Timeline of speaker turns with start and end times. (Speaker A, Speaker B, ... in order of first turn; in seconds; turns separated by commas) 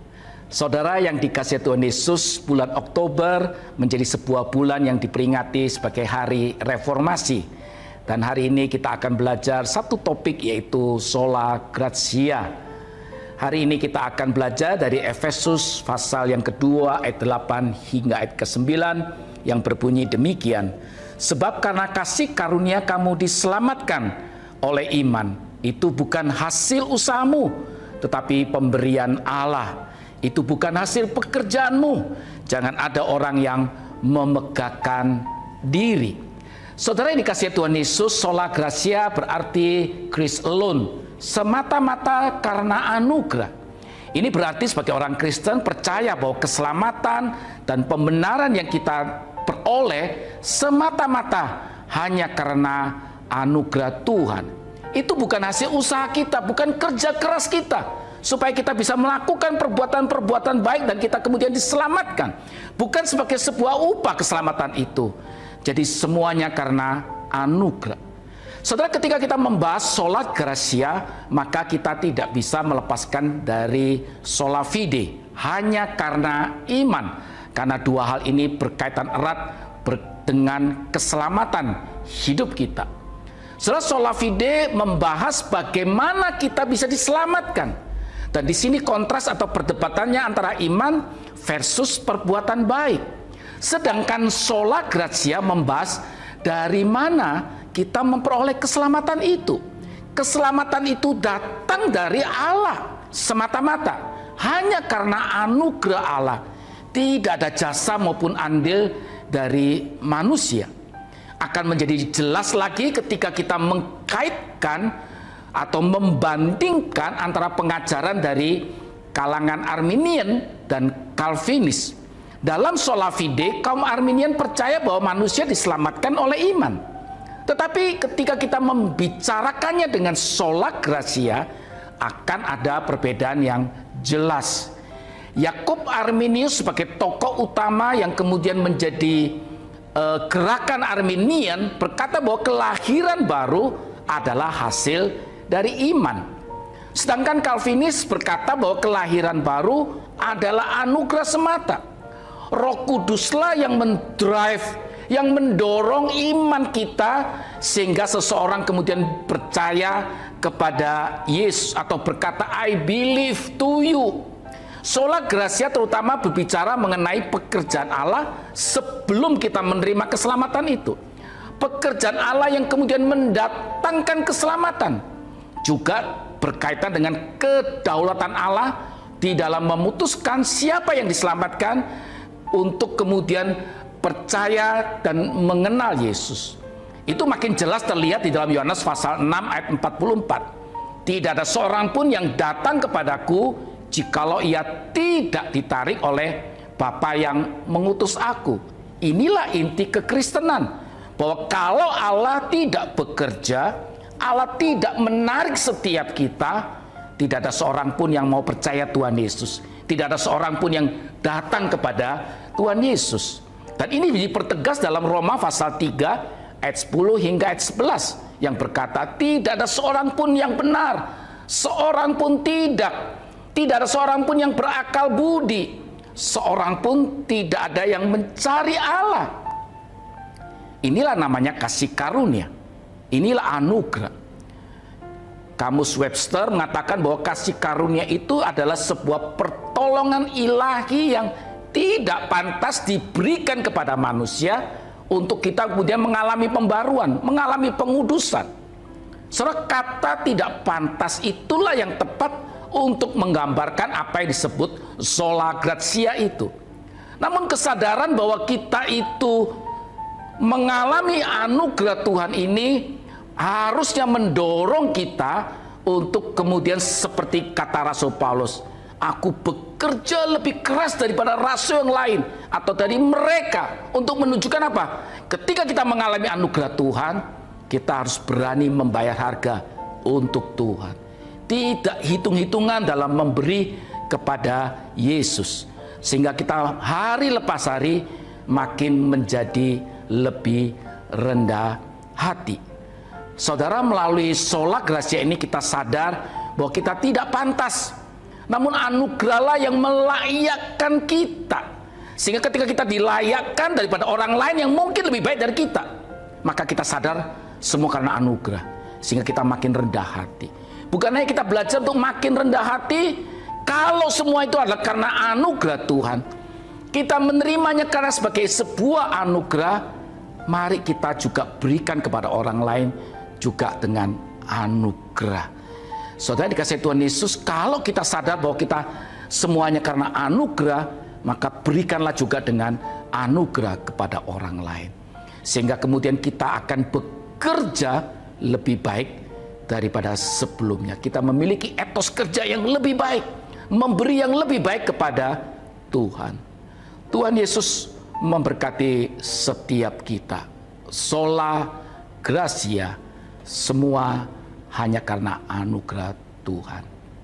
Speaker A: 0.5-7.4, Speaker A: 8.1-12.5, Speaker A: 13.4-36.2, Speaker A: 36.8-43.5, Speaker A: 44.1-65.1, Speaker A: 65.6-68.0, Speaker A: 68.6-82.9, Speaker A: 83.6-87.7, Speaker A: 88.3-93.0, Speaker A: 93.6-99.6, Speaker A: 100.1-106.4, Speaker A: 106.9-110.7, Speaker A: 111.4-114.9, Speaker A: 115.5-126.8, Speaker A: 127.5-131.4, Speaker A: 132.0-134.7, Speaker A: 135.4-139.4, Speaker A: 139.9-146.2, Speaker A: 146.9-151.8, Speaker A: 152.5-164.2, Speaker A: 164.8-171.0, Speaker A: 171.6-175.0, Speaker A: 175.6-181.8, Speaker A: 182.5-190.4, Speaker A: 191.0-229.3, Speaker A: 230.8-232.5, Speaker A: 233.1-234.1, Speaker A: 235.6-248.5, Speaker A: 249.3-256.5, Speaker A: 257.2-259.6, Speaker A: 260.4-281.0, Speaker A: 281.5-292.6, Speaker A: 293.4-297.9, Speaker A: 298.5-301.6, Speaker A: 302.2-305.9, Speaker A: 306.4-316.2, Speaker A: 316.9-319.9, Speaker A: 320.5-325.5, Speaker A: 326.2-334.9, Speaker A: 335.4-345.4, Speaker A: 345.9-346.4, Speaker A: 347.1-356.9